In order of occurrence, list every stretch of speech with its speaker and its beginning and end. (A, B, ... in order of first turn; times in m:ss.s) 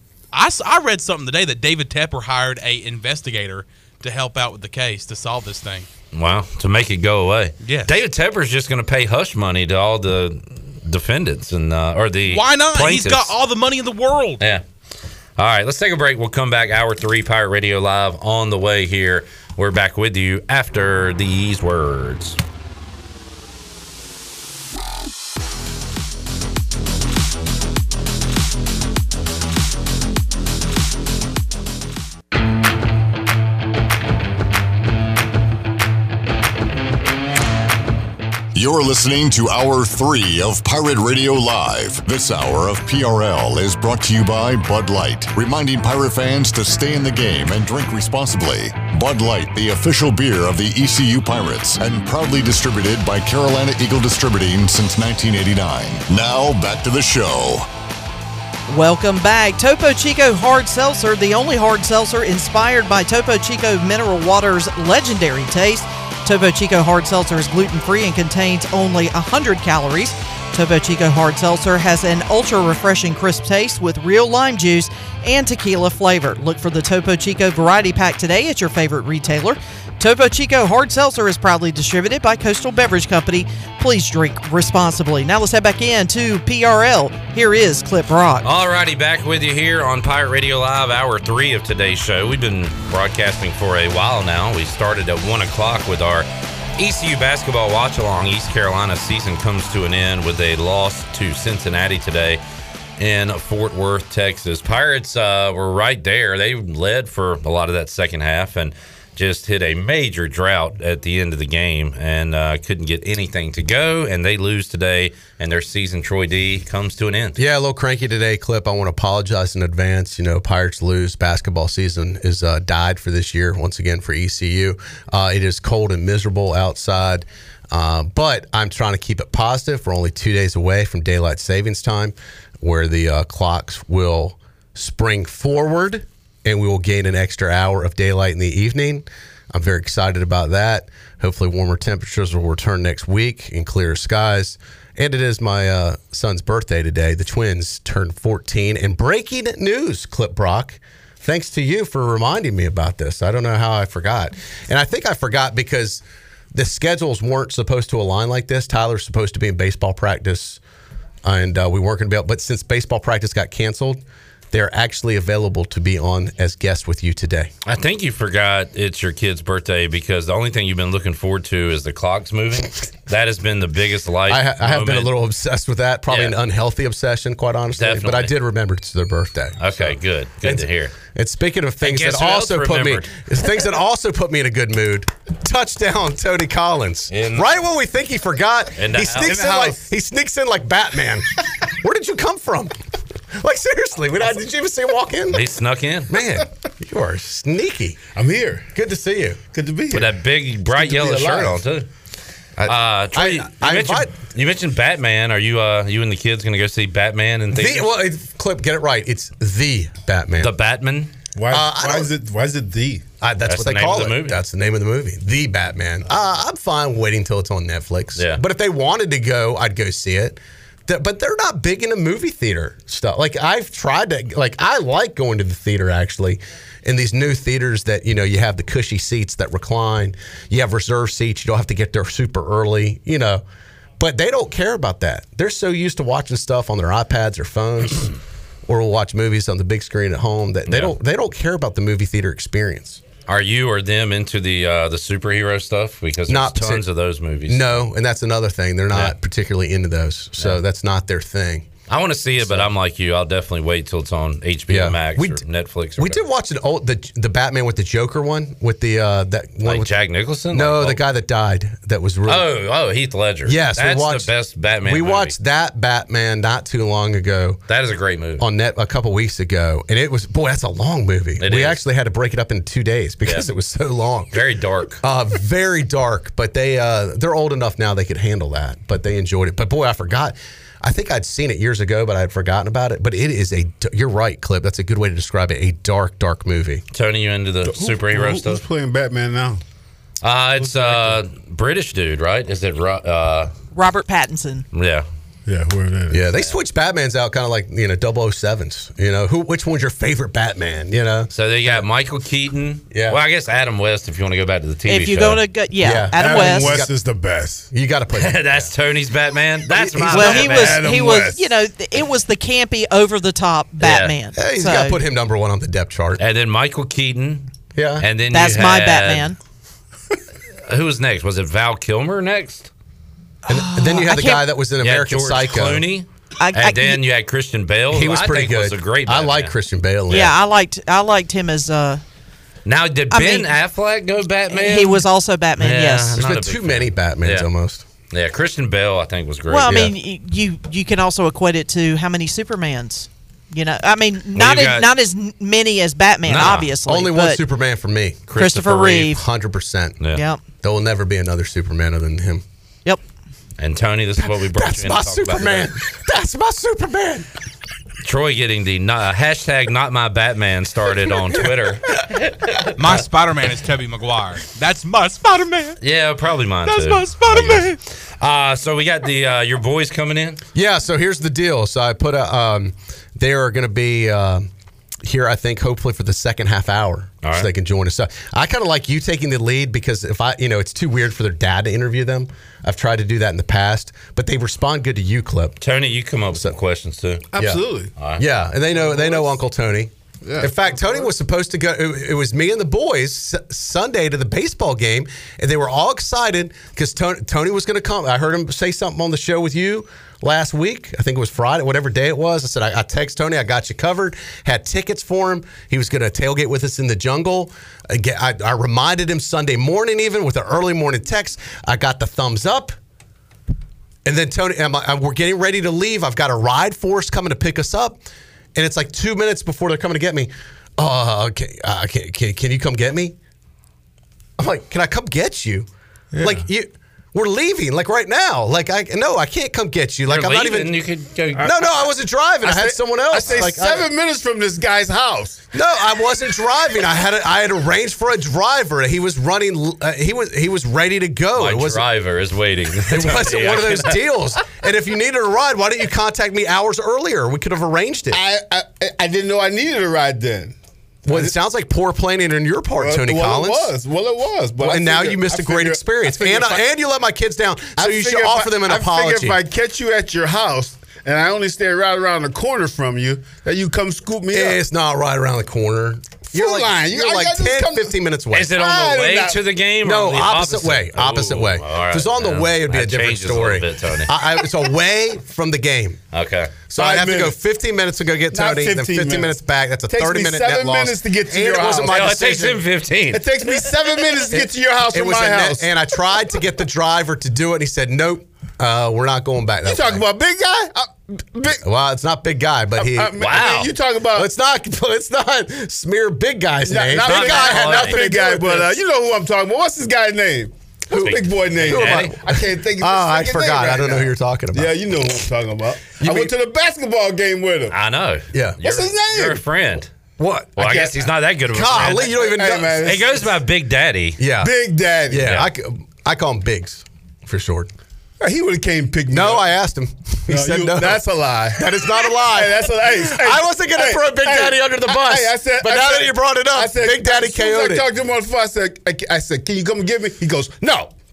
0:00.3-0:05.9 A
0:06.1-0:13.4 B
0:07.6-0:07.9 A
0:12.3-0:14.4 A
0:15.4-0:22.4 B
0:38.5-0:57.7 C
0:58.7-1:28.5 D
1:28.4-1:42.4 B
1:43.0-1:57.4 B
1:57.4-2:36.0 E
2:36.5-2:40.6 E
2:41.2-2:44.0 E
2:44.5-2:47.5 E
2:47.6-2:55.1 B
2:54.3-3:11.3 E
2:56.1-2:56.4 B
2:57.8-2:58.3 B
2:59.6-3:01.0 B
3:01.8-3:03.3 B
3:07.1-3:07.5 B
3:08.8-3:09.5 B
3:09.3-3:09.8 F
3:11.8-3:12.7 E
3:13.4-3:15.4 E
3:15.3-3:16.2 B
3:16.1-3:18.0 E
3:18.1-3:18.7 F
3:18.8-3:19.4 E
3:19.5-3:20.2 F
3:19.9-3:21.9 B
3:20.9-3:21.5 E
3:20.9-3:21.4 F
3:22.6-3:24.2 E
3:22.6-3:27.9 B
3:27.5-3:30.5 E
3:30.4-3:31.1 B
3:31.4-3:33.0 F
3:31.5-3:32.1 E
3:33.2-3:53.4 E
3:33.5-3:34.4 B
3:38.2-3:38.4 B
3:54.0-3:58.1 E
3:58.7-4:03.0 E
4:00.7-4:00.9 B
4:03.3-4:07.9 B
4:06.3-4:06.8 E
4:07.5-4:11.7 E
4:11.9-4:16.2 B
4:12.4-4:12.7 E
4:14.7-4:15.4 E
4:16.0-4:19.9 E
4:19.6-4:21.0 B
4:20.5-4:22.5 E
4:22.3-4:25.4 B
4:23.5-4:27.6 E
4:27.7-4:28.5 B
4:28.4-4:34.3 E
4:31.4-4:31.8 B
4:34.3-4:35.0 B
4:35.0-4:46.8 E
4:46.9-4:48.6 B
4:47.6-4:49.6 F
4:50.2-4:53.5 B
4:50.6-4:51.2 F
4:53.7-4:54.7 D
4:54.7-4:55.1 B
4:55.5-4:56.2 F
4:56.1-5:01.3 E
5:01.3-5:05.4 B
5:02.9-5:03.2 E
5:04.9-5:06.8 D
5:05.8-5:06.9 E
5:06.2-5:07.7 F
5:07.7-5:08.7 E
5:08.1-5:10.9 B
5:09.7-5:10.3 E
5:10.1-5:15.0 D
5:10.1-5:11.5 F
5:13.8-5:14.2 B
5:14.4-5:16.2 E
5:16.2-5:19.3 B
5:17.8-5:18.1 E
5:18.3-5:19.4 D
5:20.7-5:22.7 B
5:23.5-5:25.9 E
5:23.5-5:24.5 D
5:24.8-5:29.6 B
5:26.4-5:27.0 D
5:27.9-5:30.3 E
5:30.1-5:32.0 D
5:32.6-5:35.1 B
5:33.1-5:33.5 D
5:34.5-5:36.2 D
5:35.6-5:37.5 B
5:36.2-5:37.8 E
5:38.1-5:39.9 B
5:39.5-5:47.4 D
5:44.4-5:44.9 B
5:46.3-5:46.7 B
5:46.4-5:48.4 E
5:48.3-5:49.1 B
5:48.4-5:49.2 D
5:49.0-5:50.0 E
5:50.1-5:50.4 D
5:50.6-5:52.4 E
5:53.6-5:55.7 B
5:54.2-5:57.3 E
5:58.0-6:03.0 B
6:01.3-6:02.0 E
6:02.8-6:05.8 A
6:05.8-6:10.4 B
6:06.6-6:07.8 A
6:10.6-6:14.5 E
6:15.0-6:25.6 E
6:17.2-6:17.5 B
6:25.6-6:27.3 B
6:27.3-6:27.9 F
6:27.4-6:27.6 E
6:28.0-6:28.2 B
6:28.2-6:52.8 E
6:28.8-6:29.4 F
6:30.2-6:31.1 F
6:54.1-6:58.0 E
6:58.6-7:03.2 E
7:04.4-7:05.7 E
7:06.1-7:06.4 F
7:06.2-7:10.8 E
7:10.1-7:11.6 B
7:11.4-7:13.9 E
7:12.4-7:15.4 F
7:13.2-7:13.5 B
7:15.5-7:21.9 E
7:21.4-7:24.1 B
7:22.9-7:28.2 E
7:28.1-7:30.6 F
7:31.1-7:33.7 E
7:32.8-7:36.6 F
7:34.6-7:39.4 E
7:37.8-7:44.6 F
7:44.3-7:48.6 E
7:46.3-7:47.9 F
7:48.3-7:54.1 B
7:48.5-7:49.4 F
7:49.8-7:56.0 E
7:56.1-7:56.7 B
7:56.7-8:02.6 E
7:56.7-7:57.4 F
7:58.3-7:59.3 F
7:59.9-8:02.0 F
8:01.8-8:03.6 B
8:03.1-8:05.7 F
8:04.3-8:10.0 E
8:09.6-8:11.6 F
8:11.6-8:13.4 E
8:12.8-8:14.3 F
8:13.2-8:13.7 B
8:14.1-8:18.8 E
8:16.6-8:27.8 F
8:17.0-8:18.3 B
8:20.9-8:25.1 E
8:20.9-8:22.2 B
8:25.9-8:26.3 E
8:27.7-8:29.9 B
8:28.3-8:28.6 E
8:28.6-8:29.4 F
8:30.2-8:30.9 E
8:30.6-8:34.2 B
8:31.5-8:32.9 E
8:32.1-8:33.1 F
8:34.2-8:34.5 E
8:34.4-8:35.3 F
8:35.0-8:37.7 E
8:35.2-8:35.5 B
8:38.2-8:39.5 F
8:39.1-8:47.9 E
8:40.3-8:50.9 F